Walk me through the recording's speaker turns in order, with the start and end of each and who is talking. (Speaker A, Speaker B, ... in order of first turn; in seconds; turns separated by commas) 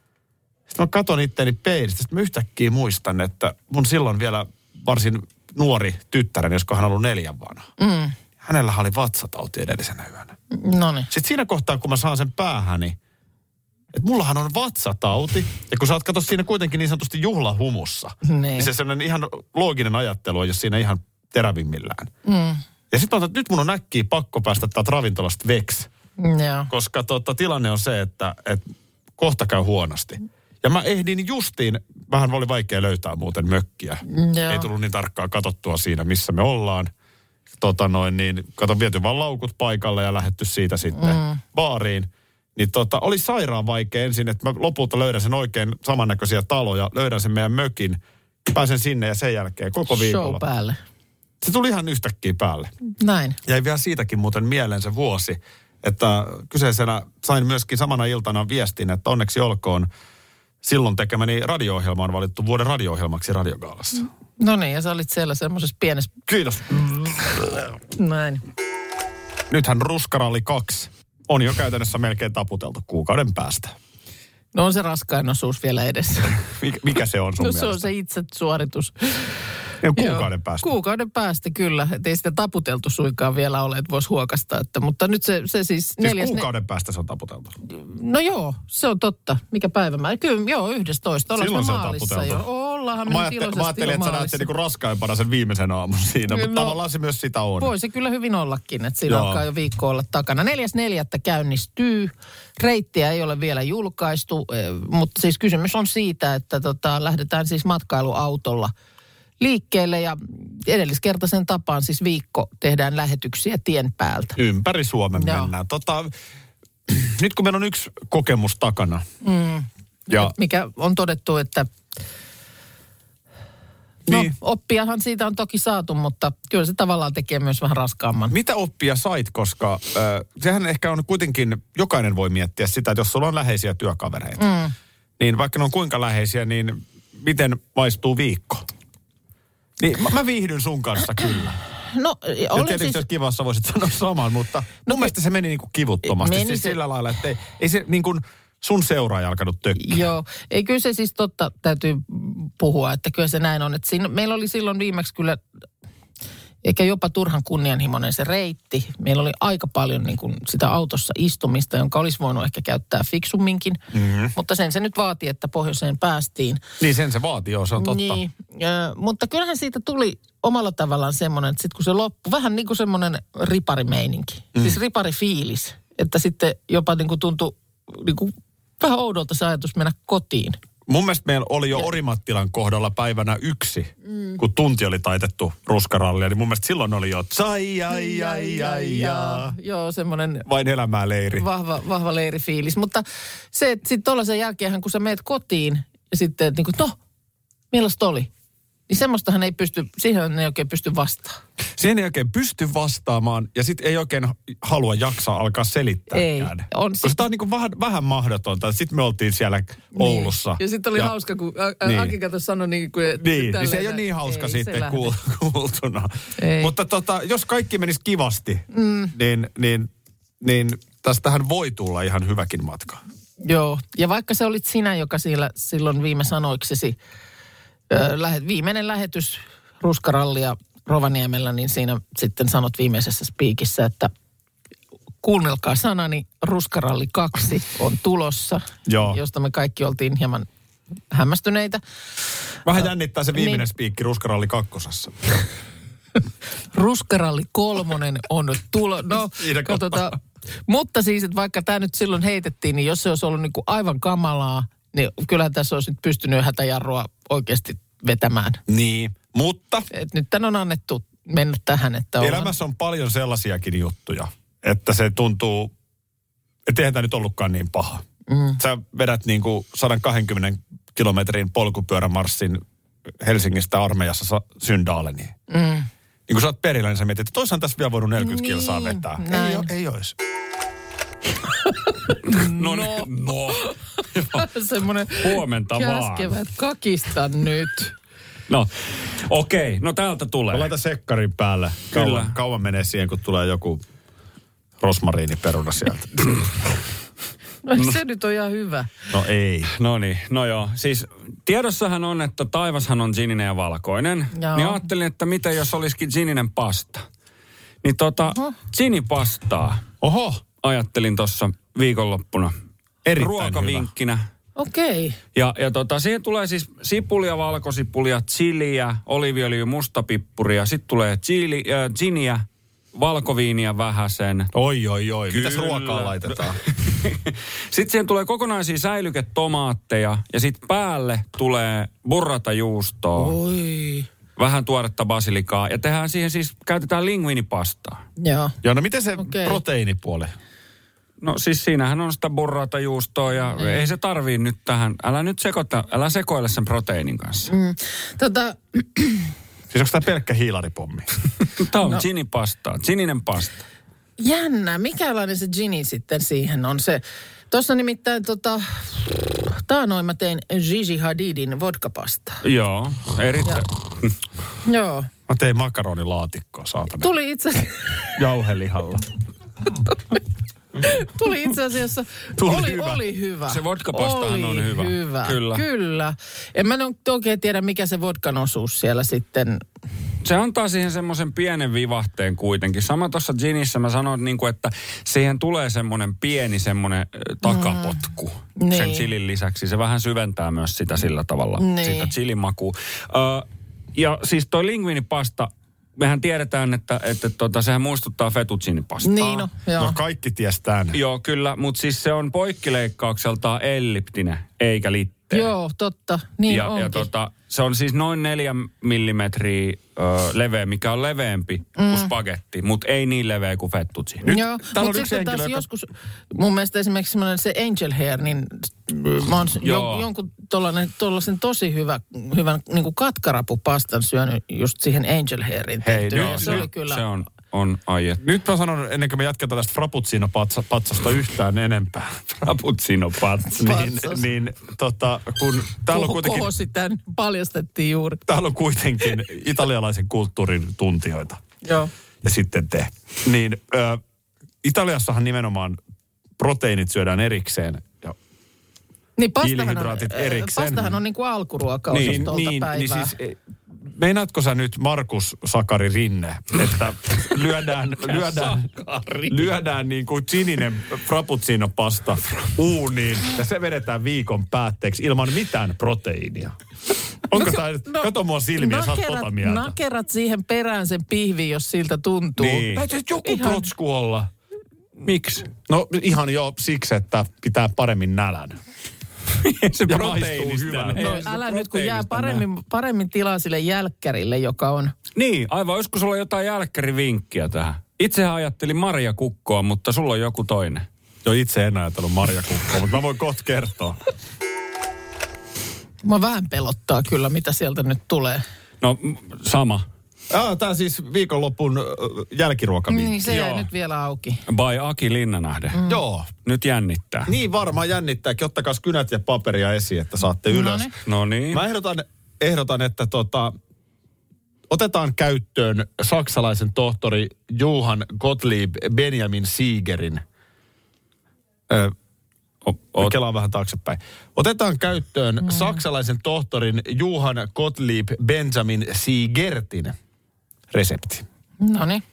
Speaker A: 0.7-7.7, Speaker B: 7.8-8.2, Speaker A: 8.4-10.3, Speaker B: 10.5-11.1, Speaker A: 11.1-13.0, Speaker A: 13.9-22.1, Speaker B: 18.2-18.7, Speaker B: 22.2-22.6, Speaker A: 22.9-25.9, Speaker B: 26.2-26.7, Speaker A: 26.7-36.9, Speaker B: 34.1-34.7, Speaker A: 37.5-50.4, Speaker B: 40.9-41.4, Speaker B: 49.9-50.8, Speaker A: 51.4-52.7, Speaker B: 53.0-53.4, Speaker A: 53.4-59.9, Speaker A: 60.6-64.1, Speaker B: 64.4-66.1, Speaker A: 66.3-67.6, Speaker B: 67.9-68.4, Speaker A: 69.5-73.8, Speaker B: 74.5-76.4, Speaker A: 76.4-77.9, Speaker B: 77.4-79.3, Speaker A: 79.8-80.7, Speaker B: 80.0-86.5, Speaker A: 86.0-87.6, Speaker B: 87.7-94.5, Speaker A: 91.3-92.4, Speaker A: 93.0-97.7, Speaker B: 96.3-96.8, Speaker B: 97.6-108.7, Speaker A: 99.1-99.4, Speaker B: 109.4-114.4, Speaker A: 114.3-116.1, Speaker B: 115.2-115.5, Speaker A: 116.9-119.0, Speaker B: 119.2-121.7, Speaker A: 124.1-124.3, Speaker B: 124.1-128.3, Speaker A: 128.3-134.5, Speaker B: 134.4-134.7, Speaker A: 135.2-138.6, Speaker A: 139.8-141.6, Speaker B: 141.9-143.0, Speaker A: 142.5-150.1, Speaker B: 144.9-145.1, Speaker B: 146.0-146.8, Speaker B: 149.8-155.4, Speaker B: 156.6-163.8, Speaker A: 163.9-164.3, Speaker B: 164.3-166.6, Speaker A: 166.8-168.2, Speaker B: 167.8-180.6, Speaker A: 180.9-189.5, Speaker B: 187.9-190.5, Speaker A: 190.4-191.5, Speaker B: 191.3-197.0, Speaker B: 197.7-198.3, Speaker B: 198.9-201.4, Speaker A: 201.8-211.1, Speaker B: 206.1-207.2, Speaker B: 209.9-215.1, Speaker A: 211.8-212.1, Speaker A: 213.2-219.9, Speaker B: 216.4-216.7, Speaker B: 218.7-219.1, Speaker A: 220.4-223.0, Speaker B: 223.4-227.0, Speaker B: 227.9-234.1, Speaker B: 235.2-240.5, Speaker A: 238.8-239.2, Speaker B: 241.1-241.8, Speaker A: 242.6-245.2, Speaker B: 243.3-243.6, Speaker B: 246.7-258.6, Speaker A: 249.3-250.2, Speaker A: 258.7-259.9, Speaker B: 259.9-262.5, Speaker A: 262.2-265.7, Speaker A: 266.6-268.0, Speaker B: 268.3-268.6, Speaker A: 268.6-272.6, Speaker A: 273.2-275.3, Speaker B: 275.5-275.9, Speaker A: 276.3-280.1, Speaker B: 278.2-279.7, Speaker B: 281.7-283.1, Speaker C: 282.2-284.5, Speaker B: 284.3-287.9, Speaker C: 285.1-286.4, Speaker C: 288.5-290.7, Speaker A: 290.5-293.8, Speaker C: 291.9-292.3, Speaker A: 294.8-296.5, Speaker B: 297.6-298.9, Speaker A: 299.1-299.7, Speaker C: 299.8-307.0, Speaker B: 304.3-304.8, Speaker C: 307.8-309.8, Speaker A: 310.0-310.4, Speaker C: 310.6-312.5, Speaker A: 313.0-313.9, Speaker C: 313.2-314.2, Speaker B: 314.6-315.2, Speaker C: 315.3-324.5, Speaker A: 324.5-326.6, Speaker C: 325.3-333.4, Speaker B: 333.2-334.0, Speaker C: 334.4-338.0, Speaker B: 338.2-338.6, Speaker A: 338.6-340.3, Speaker B: 339.2-339.6, Speaker C: 341.2-347.5, Speaker B: 343.6-343.9, Speaker B: 347.5-349.3, Speaker A: 349.7-351.1, Speaker C: 351.6-353.6, Speaker B: 354.2-362.4, Speaker C: 362.4-364.1, Speaker B: 364.6-365.1, Speaker A: 365.3-367.1, Speaker B: 367.0-368.2, Speaker A: 368.1-369.1, Speaker B: 370.8-379.6, Speaker A: 372.4-373.0, Speaker C: 373.5-375.6, Speaker C: 380.2-399.5, Speaker B: 387.4-387.9, Speaker B: 388.6-389.0, Speaker B: 391.6-392.1, Speaker B: 399.0-400.0, Speaker A: 399.8-401.0, Speaker C: 400.9-405.5, Speaker B: 405.3-407.1, Speaker C: 406.5-414.2, Speaker B: 411.8-412.1, Speaker A: 414.2-415.6, Speaker B: 414.3-427.0, Speaker C: 419.6-420.1, Speaker A: 425.8-426.6, Speaker C: 426.1-428.2, Speaker A: 428.2-432.4, Speaker C: 432.4-433.7, Speaker A: 433.4-436.5, Speaker B: 433.6-434.2, Speaker B: 435.9-438.2, Speaker A: 438.3-441.4, Speaker B: 441.6-441.9, Speaker A: 442.2-444.0, Speaker A: 444.6-445.8, Speaker A: 446.4-448.2, Speaker B: 449.2-453.1, Speaker A: 449.4-451.0, Speaker C: 451.9-452.3, Speaker A: 451.9-458.7, Speaker C: 458.0-459.5, Speaker A: 459.2-466.6, Speaker A: 467.2-469.7, Speaker B: 467.3-472.6, Speaker C: 472.4-472.8, Speaker A: 472.4-474.3, Speaker B: 473.2-473.6, Speaker C: 475.0-475.5, Speaker A: 475.7-478.6, Speaker C: 479.4-482.4, Speaker A: 479.9-481.3, Speaker B: 480.9-484.9, Speaker C: 485.1-490.9, Speaker A: 491.2-494.0, Speaker B: 496.0-498.4, Speaker C: 498.8-499.9, Speaker A: 500.3-503.2, Speaker B: 502.9-504.4, Speaker C: 503.2-503.7, Speaker C: 504.5-505.8, Speaker B: 505.7-506.0, Speaker A: 505.8-506.3, Speaker C: 506.4-507.3, Speaker A: 507.2-510.9, Speaker B: 510.5-510.9, Speaker C: 511.0-511.6, Speaker A: 511.5-513.5, Speaker A: 514.7-520.2, Speaker A: 521.7-521.9, Speaker C: 522.6-523.1, Speaker A: 523.0-530.0, Speaker A: 530.7-531.2, Speaker B: 531.6-532.0